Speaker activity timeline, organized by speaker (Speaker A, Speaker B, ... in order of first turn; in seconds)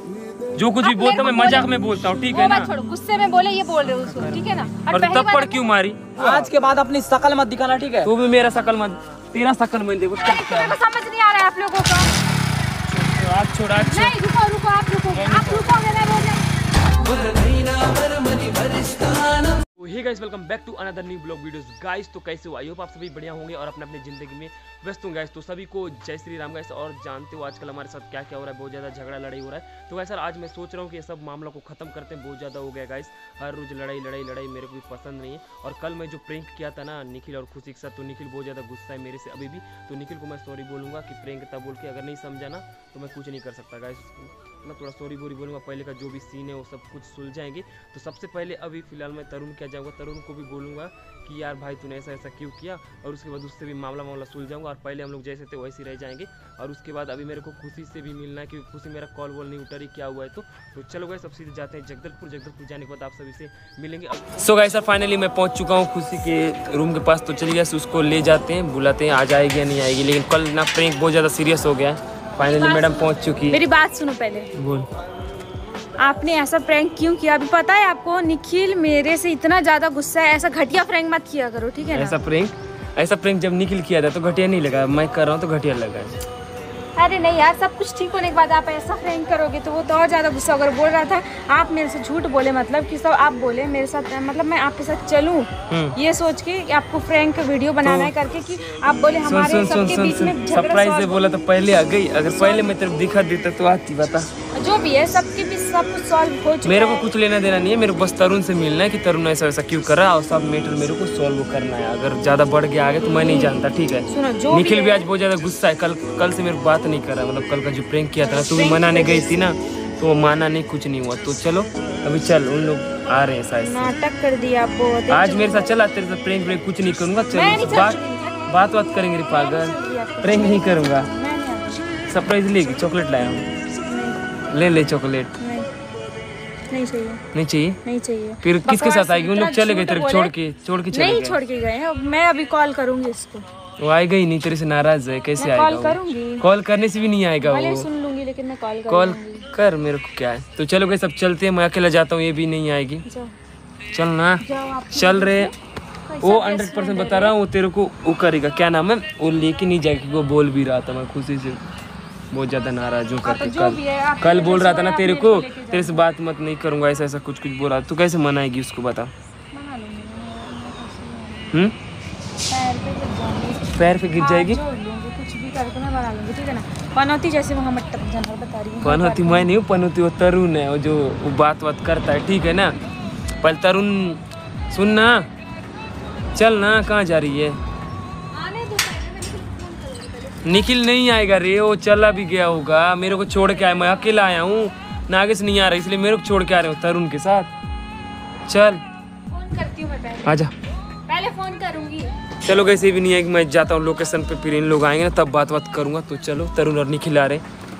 Speaker A: 0.6-2.7, 4.0-6.5, 8.0-10.7, 12.8-14.1, 15.1-15.7, 19.8-73.6, 74.5-74.9, 81.9-86.2, 95.7-96.0, 97.8-98.1, 99.2-104.3, 106.6-123.9, 125.1-131.1, 132.1-133.5, 134.5-135.3, 137.3-137.8, 138.4-141.4, 143.8-147.9, 148.9-153.0, 153.9-155.5, 156.2-161.6, 162.3-169.1, 173.7-174.6, 178.8-182.7, 183.4-185.2, 186.3-187.6, 190.4-197.5, 198.4-198.8, 200.2-200.5, 202.4-207.4
Speaker B: 0.8-1.7, 2.3-5.7, 10.2-12.1, 13.7-16.4, 72.4-74.5, 76.0-82.2, 87.0-101.2, 102.2-102.7, 104.5-107.1, 113.0-115.1, 118.2-119.5, 123.6-125.7, 127.3-128.6, 129.3-131.8, 133.8-134.2, 135.4-135.7, 136.7-137.2, 137.8-140.3, 140.9-143.4, 145.4-146.4, 147.4-149.5, 153.0-153.3, 154.4-155.5, 156.1-157.3, 163.2-166.0, 169.5-171.5, 172.4-179.5, 188.3-190.7, 199.3-200.3, 201.1-202.1
Speaker C: 6.2-8.1, 17.1-19.1